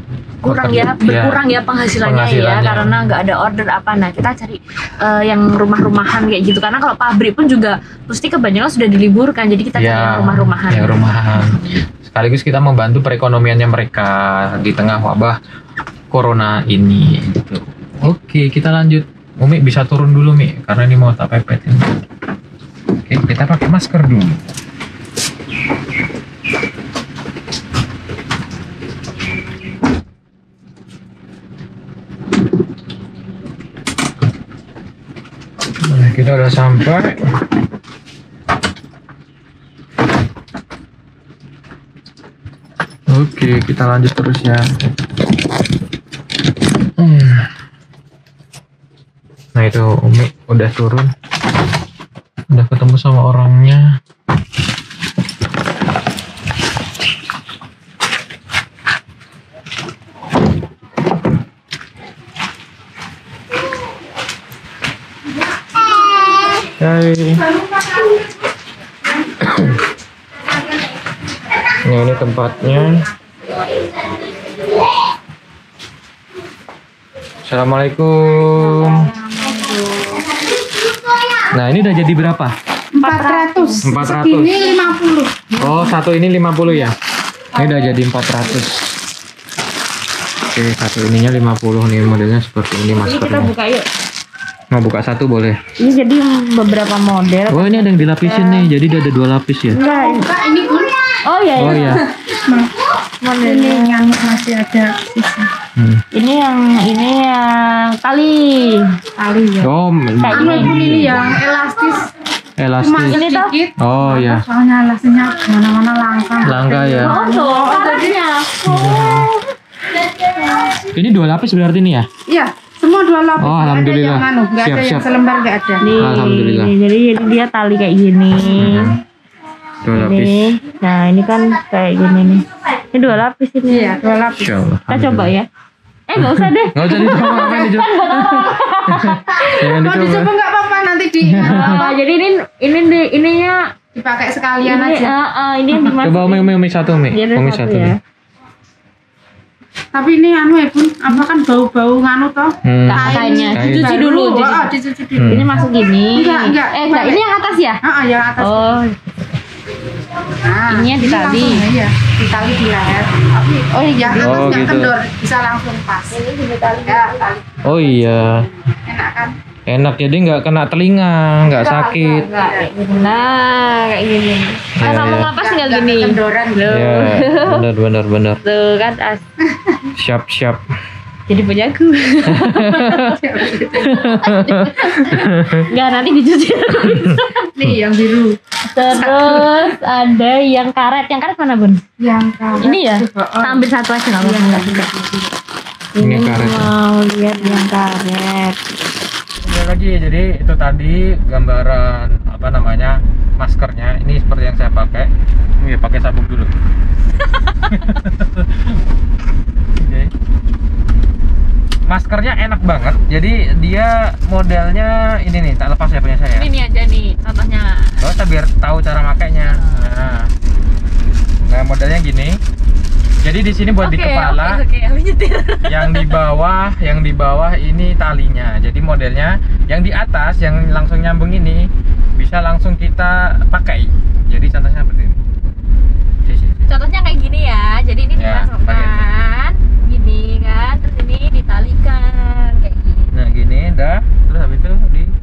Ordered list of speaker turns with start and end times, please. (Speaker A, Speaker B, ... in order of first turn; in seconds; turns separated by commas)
Speaker A: 0.4-11.7, Speaker B: 0.4-1.4, Speaker B: 2.0-3.1, Speaker B: 9.8-15.4, Speaker B: 16.1-21.9, Speaker B: 23.0-24.4, Speaker B: 35.8-37.2, Speaker B: 43.1-44.8, Speaker B: 47.0-47.5, Speaker B: 49.5-51.1, Speaker B: 52.5-54.0, Speaker B: 66.8-67.5, Speaker B: 71.8-73.0, Speaker B: 77.4-79.1, Speaker C: 79.0-80.0, Speaker B: 81.5-82.5, Speaker C: 82.9-85.8, Speaker A: 83.0-83.8, Speaker B: 83.8-84.6, Speaker A: 84.6-84.9, Speaker B: 85.6-86.9, Speaker B: 87.5-89.0, Speaker A: 87.6-88.0, Speaker B: 90.5-93.5, Speaker A: 93.0-93.9, Speaker B: 94.7-95.6, Speaker A: 95.8-98.7, Speaker B: 97.5-99.8, Speaker A: 99.7-100.3, Speaker C: 99.8-100.9, Speaker A: 101.2-102.0, Speaker B: 101.5-102.0, Speaker C: 101.6-102.7, Speaker A: 103.2-104.1, Speaker C: 103.4-105.5, Speaker B: 105.8-106.0, Speaker A: 106.1-109.0, Speaker C: 109.2-109.7, Speaker B: 109.6-111.2, Speaker A: 110.2-111.1, Speaker C: 110.3-112.1, Speaker B: 112.6-113.2, Speaker C: 112.8-118.2, Speaker A: 113.0-113.5, Speaker B: 113.8-114.4, Speaker B: 116.4-117.2, Speaker A: 117.0-118.8, Speaker B: 118.6-119.3, Speaker B: 120.8-122.1, Speaker C: 122.3-126.0, Speaker B: 123.4-125.0, Speaker A: 125.8-128.9, Speaker B: 126.0-126.7, Speaker B: 128.4-129.0, Speaker B: 129.8-130.6, Speaker A: 130.0-134.0, Speaker C: 133.7-134.6, Speaker B: 134.4-135.3, Speaker A: 134.9-135.5, Speaker A: 136.1-139.6, Speaker B: 136.2-140.3, Speaker C: 139.3-142.0, Speaker B: 141.2-141.8, Speaker A: 141.5-143.7, Speaker C: 143.9-145.1, Speaker A: 144.6-146.5, Speaker B: 145.9-147.9, Speaker A: 147.1-148.0, Speaker C: 149.9-155.5, Speaker B: 152.6-153.9, Speaker A: 152.9-154.7, Speaker B: 155.1-155.6, Speaker A: 155.3-157.8, Speaker C: 156.1-158.8, Speaker A: 158.4-159.0, Speaker C: 160.3-166.2, Speaker A: 160.7-161.7, Speaker A: 163.7-164.7, Speaker B: 164.2-164.9, Speaker A: 166.1-168.1, Speaker C: 166.8-167.6, Speaker B: 167.6-168.5, Speaker C: 168.8-169.3, Speaker B: 169.7-172.3, Speaker A: 171.4-177.6, Speaker C: 172.3-172.7, Speaker B: 174.8-175.3, Speaker C: 175.3-176.8, Speaker B: 176.7-178.4, Speaker A: 178.4-179.2, Speaker B: 179.9-180.6, Speaker A: 181.3-187.5, Speaker B: 182.3-183.2, Speaker C: 183.0-184.1, Speaker B: 183.9-185.7, Speaker B: 186.8-187.8, Speaker C: 187.5-188.4, Speaker A: 188.7-191.8, Speaker C: 188.9-189.6, Speaker C: 192.0-193.7, Speaker A: 192.6-194.9, Speaker C: 194.2-195.2, Speaker A: 195.9-198.6, Speaker B: 196.0-196.7, Speaker B: 199.4-206.5, Speaker A: 207.2-207.9, Speaker B: 207.7-208.8, Speaker B: 209.8-210.1, Speaker B: 211.9-216.5, Speaker A: 216.3-218.0, Speaker B: 218.0-220.3, Speaker A: 219.2-219.8, Speaker B: 221.4-222.4, Speaker B: 223.2-224.6, Speaker A: 223.8-226.2, Speaker B: 225.7-235.2, Speaker B: 236.2-236.7, Speaker A: 236.7-243.1, Speaker B: 238.2-239.1, Speaker B: 243.1-245.1